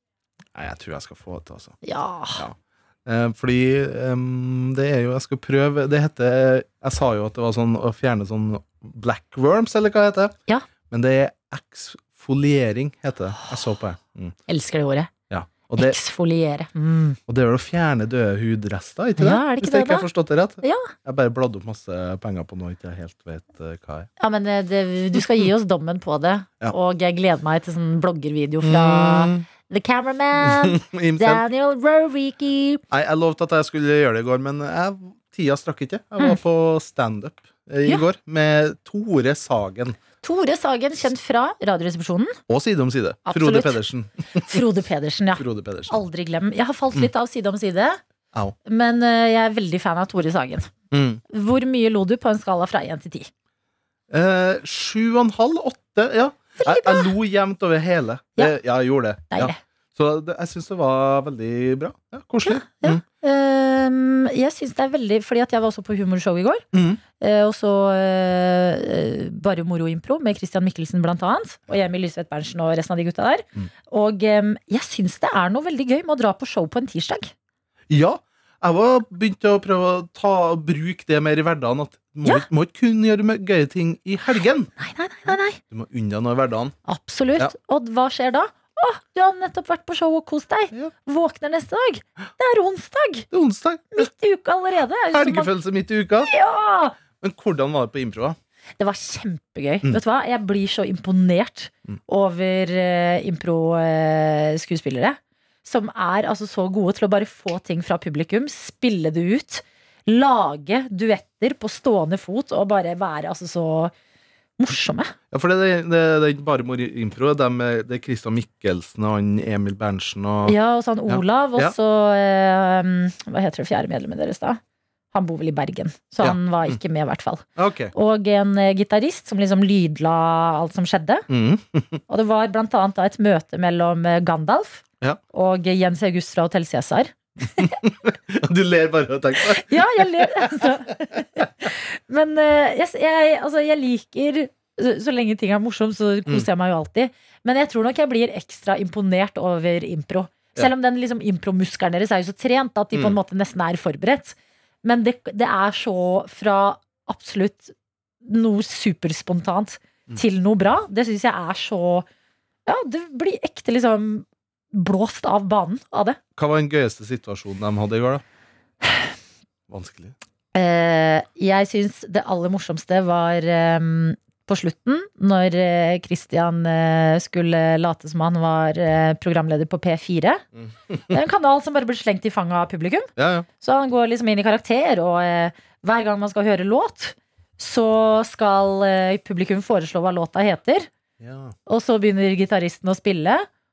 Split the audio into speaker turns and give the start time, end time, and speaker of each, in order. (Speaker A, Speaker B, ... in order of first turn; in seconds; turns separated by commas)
Speaker A: 0.5-1.8, Speaker B: 1.8-2.4, Speaker A: 2.3-10.3, Speaker A: 10.9-14.3, Speaker B: 14.5-15.1, Speaker A: 15.3-16.0, Speaker B: 15.8-17.2, Speaker A: 17.3-24.1, Speaker B: 19.2-20.1, Speaker B: 20.6-20.9, Speaker B: 24.2-32.8, Speaker A: 28.6-29.4, Speaker A: 30.4-31.4, Speaker A: 32.9-40.0, Speaker B: 40.2-42.4, Speaker A: 42.5-44.6, Speaker B: 43.2-43.8, Speaker B: 44.4-48.0, Speaker A: 45.4-46.0, Speaker B: 48.6-50.7, Speaker A: 50.9-51.2, Speaker B: 51.3-53.3, Speaker A: 54.1-63.0, Speaker B: 56.6-57.1, Speaker B: 59.3-59.6, Speaker B: 62.4-66.6, Speaker A: 66.7-67.0, Speaker B: 67.2-77.3, Speaker A: 77.9-84.7, Speaker B: 84.8-85.6, Speaker A: 85.6-86.8, Speaker B: 86.8-93.2, Speaker A: 93.3-94.1, Speaker B: 93.9-95.5, Speaker A: 95.1-96.3, Speaker B: 96.3-97.0, Speaker A: 97.2-98.4, Speaker B: 98.8-113.9, Speaker B: 114.6-115.1, Speaker A: 115.3-121.7, Speaker B: 120.5-124.6, Speaker B: 125.1-131.2, Speaker A: 126.2-126.8, Speaker A: 127.5-127.9, Speaker A: 131.3-132.0, Speaker B: 132.1-137.8, Speaker A: 137.6-140.7, Speaker B: 139.6-162.1, Speaker B: 162.7-166.2, Speaker A: 166.3-168.2, Speaker A: 169.7-170.1, Speaker B: 170.5-180.4, Speaker B: 181.1-190.9, Speaker A: 183.2-183.5, Speaker A: 191.2-191.5, Speaker B: 191.7-193.5